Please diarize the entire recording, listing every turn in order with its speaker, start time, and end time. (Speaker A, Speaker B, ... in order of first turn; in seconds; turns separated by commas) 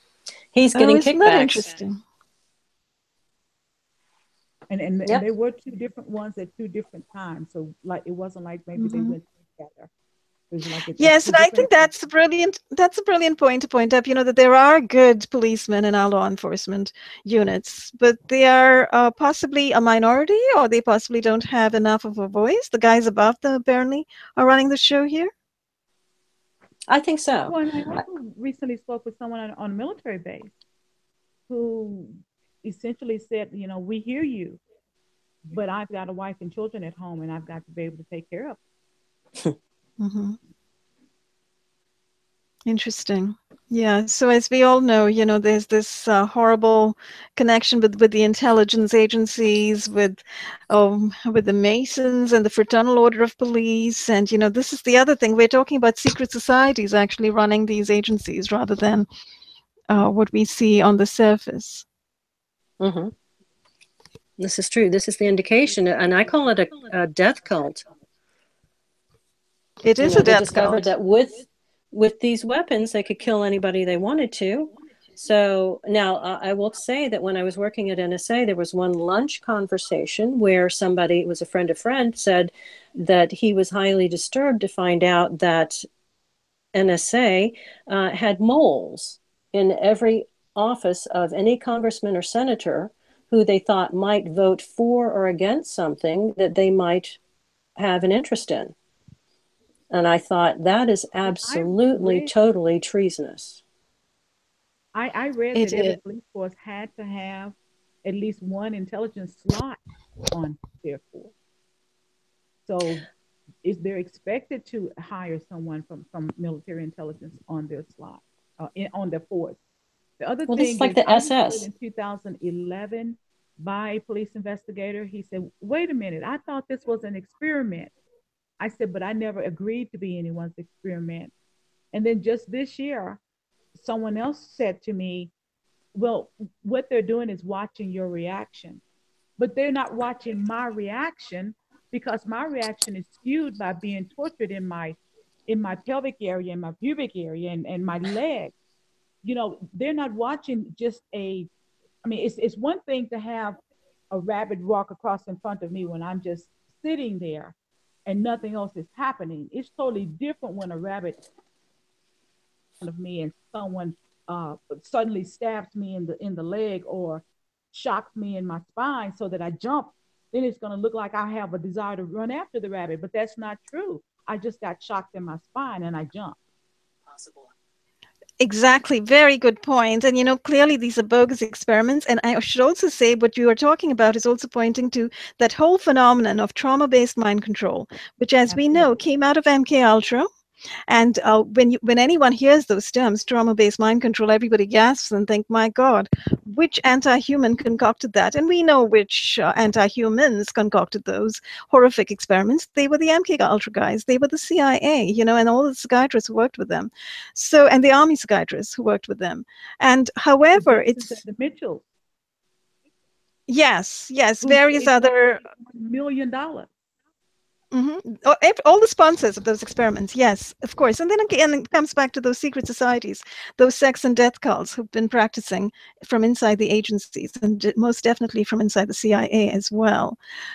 Speaker A: 0.5-1.7, Speaker B: 0.7-2.0, Speaker C: 4.7-9.9, Speaker B: 8.8-9.2, Speaker C: 10.5-11.9, Speaker B: 11.0-25.3, Speaker A: 26.9-27.6, Speaker C: 27.5-30.5, Speaker C: 31.5-34.6, Speaker C: 35.5-38.6, Speaker B: 40.0-40.4, Speaker B: 42.6-59.1, Speaker B: 59.9-61.8, Speaker A: 62.8-63.1, Speaker A: 64.4-67.8, Speaker B: 69.8-70.9, Speaker A: 70.0-85.8, Speaker A: 86.7-97.2, Speaker A: 97.8-98.7, Speaker A: 99.9-103.6, Speaker C: 101.2-102.3, Speaker C: 104.9-111.3, Speaker B: 105.5-106.0, Speaker C: 112.7-113.0, Speaker C: 113.6-119.6, Speaker C: 120.2-127.9, Speaker A: 120.5-121.7, Speaker C: 128.6-131.3, Speaker C: 131.9-133.2, Speaker C: 133.7-135.3, Speaker C: 135.9-138.8, Speaker C: 139.4-148.5, Speaker C: 149.2-151.5, Speaker C: 152.0-153.6, Speaker C: 154.1-157.5, Speaker C: 158.1-161.2, Speaker C: 162.8-176.4, Speaker B: 178.4-190.3, Speaker C: 188.5-188.9, Speaker B: 190.9-211.2, Speaker C: 210.6-211.8, Speaker B: 213.5-215.4, Speaker C: 214.4-216.7, Speaker B: 217.7-230.2